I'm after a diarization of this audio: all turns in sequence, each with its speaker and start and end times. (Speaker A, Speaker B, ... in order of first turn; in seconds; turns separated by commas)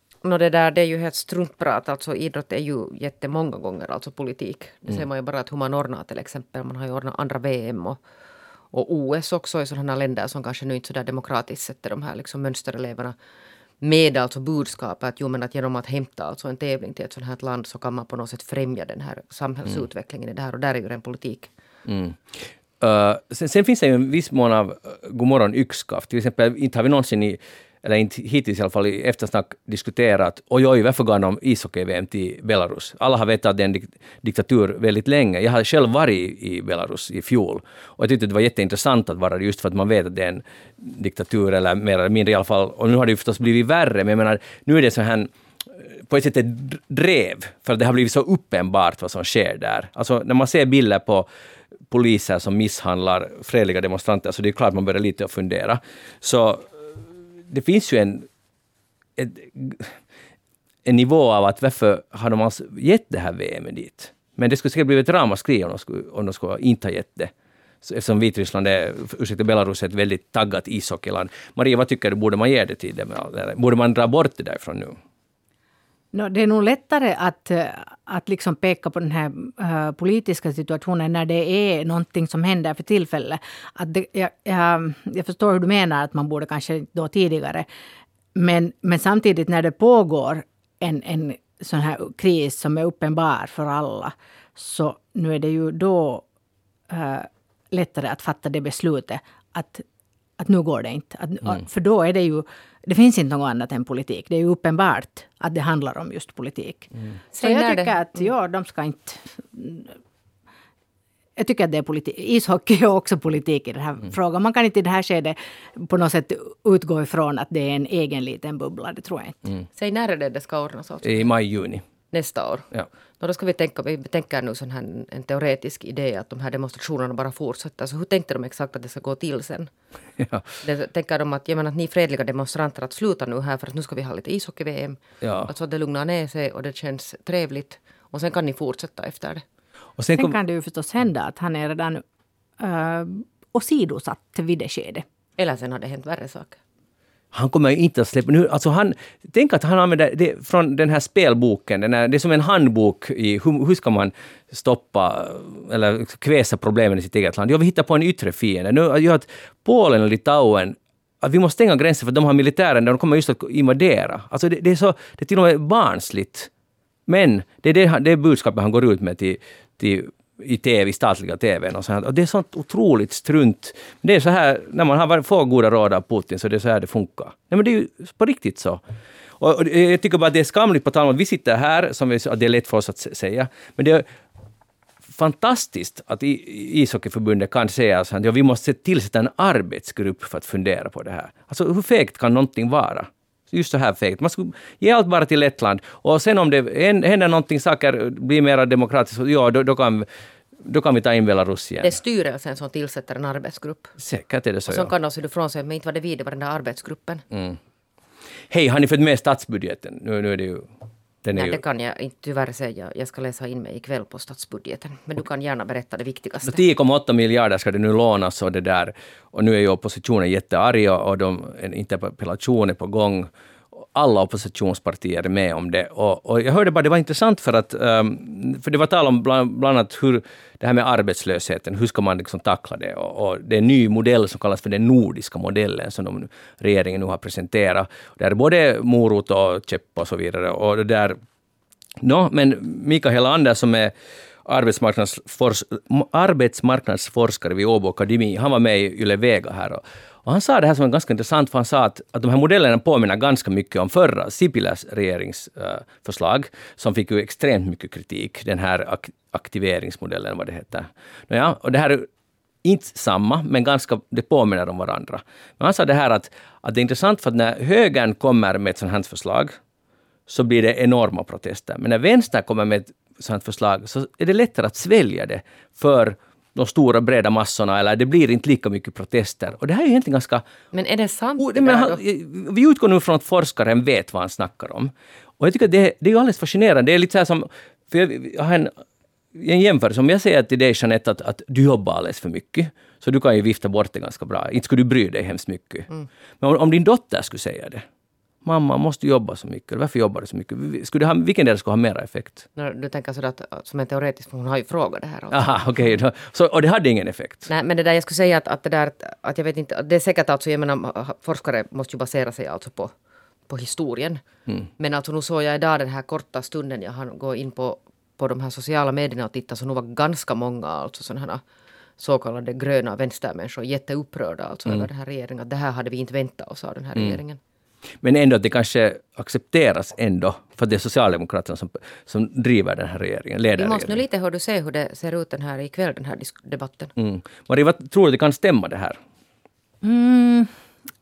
Speaker A: 0.2-8.0, Speaker A: 8.7-13.2, Speaker A: 13.8-21.5, Speaker B: 21.9-45.3, Speaker B: 45.8-51.3, Speaker B: 51.9-56.7, Speaker B: 57.5-58.3, Speaker B: 59.2-59.9, Speaker B: 60.9-67.3, Speaker B: 67.8-75.0, Speaker C: 76.1-87.7, Speaker C: 88.3-96.2, Speaker C: 96.9-99.8, Speaker C: 100.4-109.9, Speaker A: 107.3-108.0, Speaker C: 111.4-119.4, Speaker A: 119.8-121.3, Speaker B: 121.0-121.8, Speaker A: 122.1-122.7, Speaker A: 123.2-129.7, Speaker B: 130.2-130.5, Speaker A: 130.6-139.4, Speaker B: 135.2-135.5, Speaker B: 140.0-140.4, Speaker C: 140.2-142.0, Speaker C: 142.6-145.1, Speaker A: 145.4-146.6, Speaker B: 147.3-166.5, Speaker B: 167.1-178.8, Speaker B: 179.4-184.1, Speaker B: 185.1-200.1, Speaker B: 200.6-201.9, Speaker A: 201.8-204.0, Speaker B: 204.0-204.9, Speaker A: 204.7-207.2, Speaker B: 207.3-207.6, Speaker B: 208.5-210.7, Speaker B: 211.2-211.6, Speaker A: 211.3-216.6, Speaker B: 216.4-223.3, Speaker B: 223.9-241.2, Speaker B: 242.0-243.9, Speaker B: 244.4-262.1, Speaker B: 262.6-269.6, Speaker B: 270.3-280.4, Speaker A: 280.7-282.0, Speaker B: 281.4-288.7, Speaker B: 289.4-295.9, Speaker B: 296.4-297.9, Speaker B: 298.4-302.4, Speaker A: 302.6-305.7, Speaker B: 305.3-307.5, Speaker A: 307.5-312.9, Speaker A: 313.5-314.2, Speaker A: 314.8-321.4, Speaker A: 322.0-327.4, Speaker B: 328.0-334.0, Speaker A: 333.6-336.9, Speaker B: 337.0-339.0, Speaker C: 339.8-340.5